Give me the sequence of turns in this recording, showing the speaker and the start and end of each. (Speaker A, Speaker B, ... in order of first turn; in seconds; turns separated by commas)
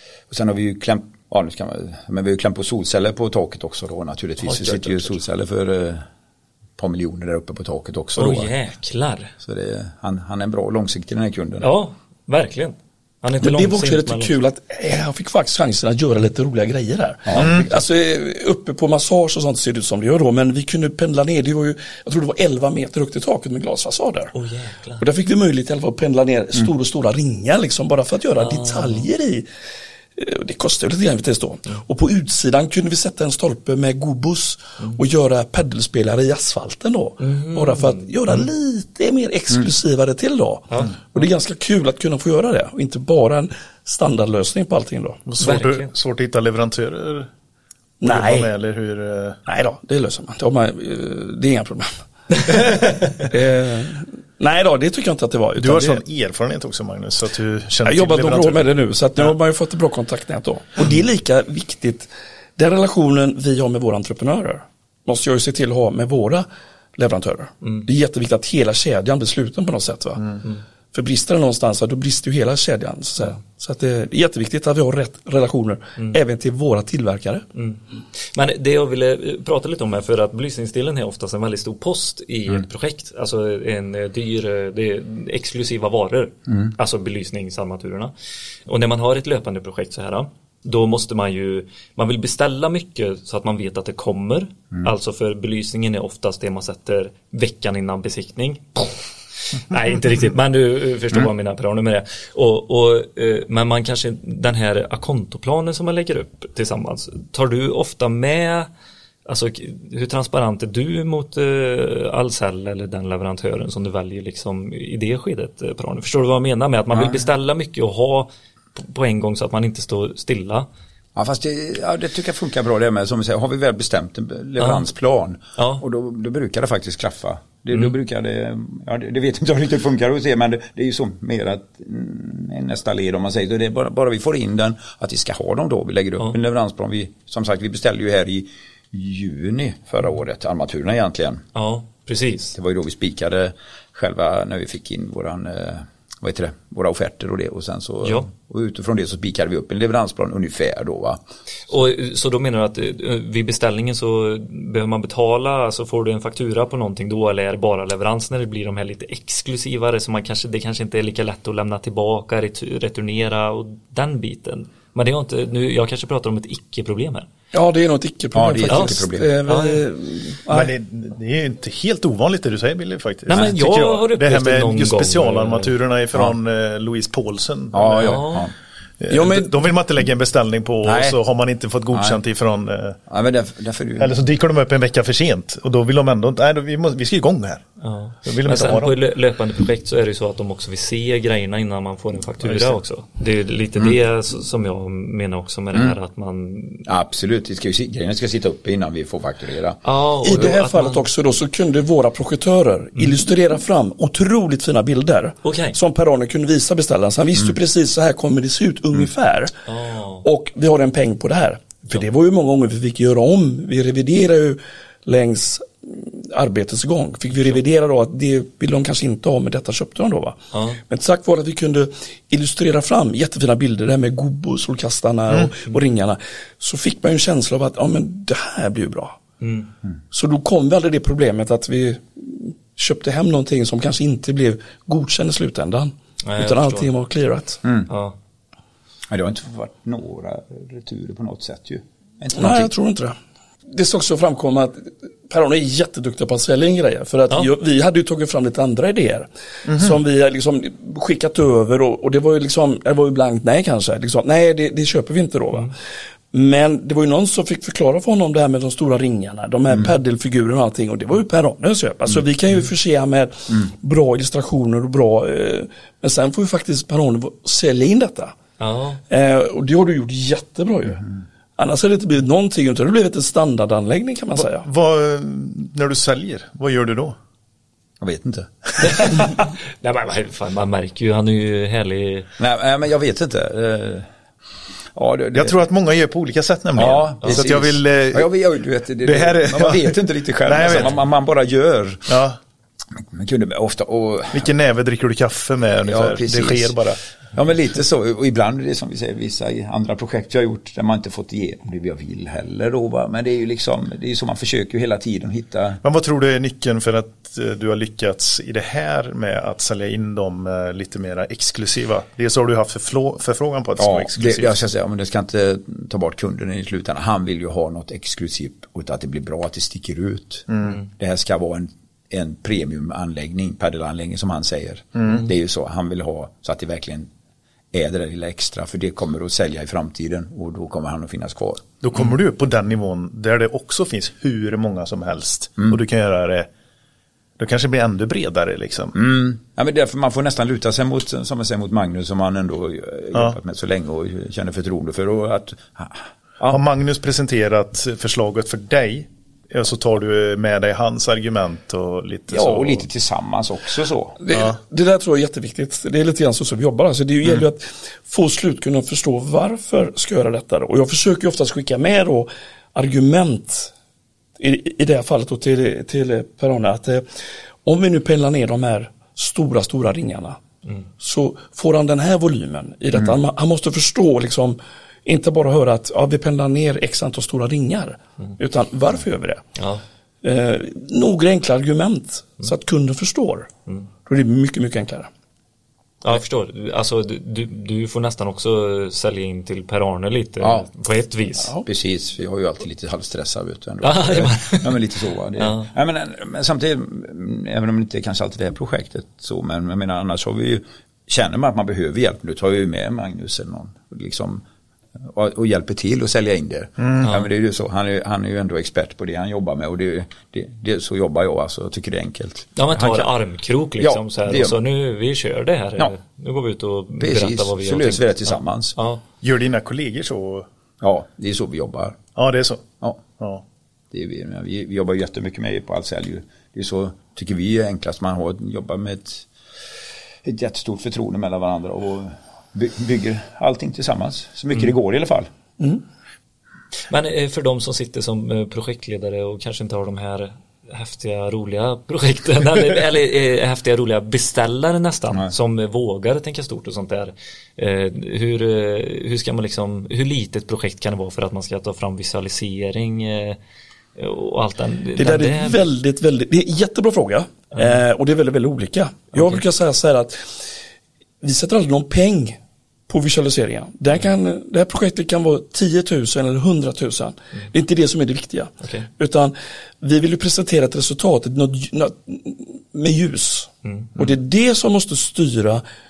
Speaker A: 0.3-6.0, Speaker B: 4.4-5.2, Speaker A: 6.8-8.5, Speaker B: 8.2-9.3, Speaker A: 9.4-11.7, Speaker B: 11.6-14.3, Speaker C: 13.4-24.3, Speaker A: 17.2-17.7, Speaker D: 17.4-17.7, Speaker B: 24.3-25.0, Speaker C: 25.0-29.5, Speaker B: 28.4-29.1, Speaker C: 30.1-45.2, Speaker B: 37.2-38.5, Speaker B: 40.7-41.2, Speaker D: 45.2-47.3, Speaker B: 45.4-45.9, Speaker C: 48.0-48.5, Speaker D: 48.0-49.4, Speaker C: 49.5-56.0, Speaker D: 55.6-58.6, Speaker C: 57.8-66.5, Speaker C: 67.0-70.4, Speaker C: 70.9-77.4, Speaker B: 77.5-77.8, Speaker B: 78.3-88.1, Speaker B: 88.7-99.0, Speaker B: 99.5-108.7, Speaker B: 109.2-120.7, Speaker A: 121.2-141.4, Speaker B: 124.6-124.8, Speaker B: 125.6-125.8, Speaker B: 141.5-142.5, Speaker A: 142.5-151.2, Speaker B: 148.0-148.3, Speaker B: 151.7-167.3, Speaker C: 167.5-170.7, Speaker A: 168.3-169.3, Speaker B: 169.5-169.8, Speaker D: 170.5-178.4, Speaker B: 173.3-175.7, Speaker A: 177.7-178.5, Speaker B: 178.0-178.5, Speaker D: 179.0-183.0, Speaker C: 179.1-179.5, Speaker A: 180.8-181.2, Speaker A: 181.9-182.2, Speaker A: 183.1-184.2, Speaker D: 184.0-187.6, Speaker B: 187.8-196.9, Speaker D: 188.2-188.9, Speaker D: 192.4-192.7, Speaker A: 196.8-200.5, Speaker B: 199.8-201.0, Speaker C: 200.2-209.5, Speaker B: 205.4-205.8, Speaker B: 209.7-210.2, Speaker C: 210.2-229.2, Speaker B: 220.5-220.8, Speaker B: 229.4-229.7, Speaker C: 230.1-237.6, Speaker B: 236.2-236.9, Speaker A: 237.6-237.9, Speaker B: 237.9-238.2, Speaker A: 239.1-242.7, Speaker C: 242.3-243.2, Speaker C: 243.7-255.7, Speaker D: 249.7-250.0, Speaker C: 256.3-268.4, Speaker B: 268.6-269.0, Speaker C: 269.1-271.0, Speaker C: 271.6-274.7, Speaker D: 274.4-277.1, Speaker A: 278.0-279.0, Speaker D: 278.8-279.2, Speaker B: 278.8-282.3, Speaker A: 282.4-284.1, Speaker A: 284.9-285.6, Speaker D: 285.3-288.3, Speaker A: 286.7-292.2, Speaker D: 289.0-291.0, Speaker D: 292.1-292.4, Speaker A: 292.9-294.5, Speaker D: 294.3-297.0, Speaker A: 295.8-296.7, Speaker A: 297.3-305.8, Speaker D: 305.8-314.6, Speaker A: 313.8-327.1, Speaker D: 320.5-320.8, Speaker D: 324.9-325.3, Speaker A: 327.7-331.7, Speaker D: 331.8-336.5, Speaker D: 337.4-338.9, Speaker A: 338.9-346.6, Speaker D: 346.5-352.8, Speaker A: 352.3-354.1, Speaker C: 354.2-363.7, Speaker C: 364.4-367.0, Speaker C: 367.6-370.4, Speaker C: 371.0-379.4, Speaker B: 379.6-379.8, Speaker C: 380.2-383.5, Speaker C: 384.1-385.1, Speaker B: 386.0-391.5, Speaker A: 390.4-390.7, Speaker A: 391.6-404.4, Speaker B: 393.8-394.8, Speaker B: 395.4-395.7, Speaker A: 405.0-413.1, Speaker D: 406.8-407.1, Speaker B: 412.6-419.0, Speaker A: 413.8-414.6, Speaker A: 417.0-418.8, Speaker D: 419.2-420.5, Speaker A: 420.8-422.0, Speaker D: 422.1-422.6, Speaker D: 423.2-423.4, Speaker A: 423.9-429.3, Speaker A: 430.2-435.3, Speaker B: 436.9-453.4, Speaker B: 453.9-455.6, Speaker C: 454.9-460.5, Speaker B: 459.1-459.4, Speaker C: 461.2-475.6, Speaker B: 468.6-468.9, Speaker B: 473.6-474.0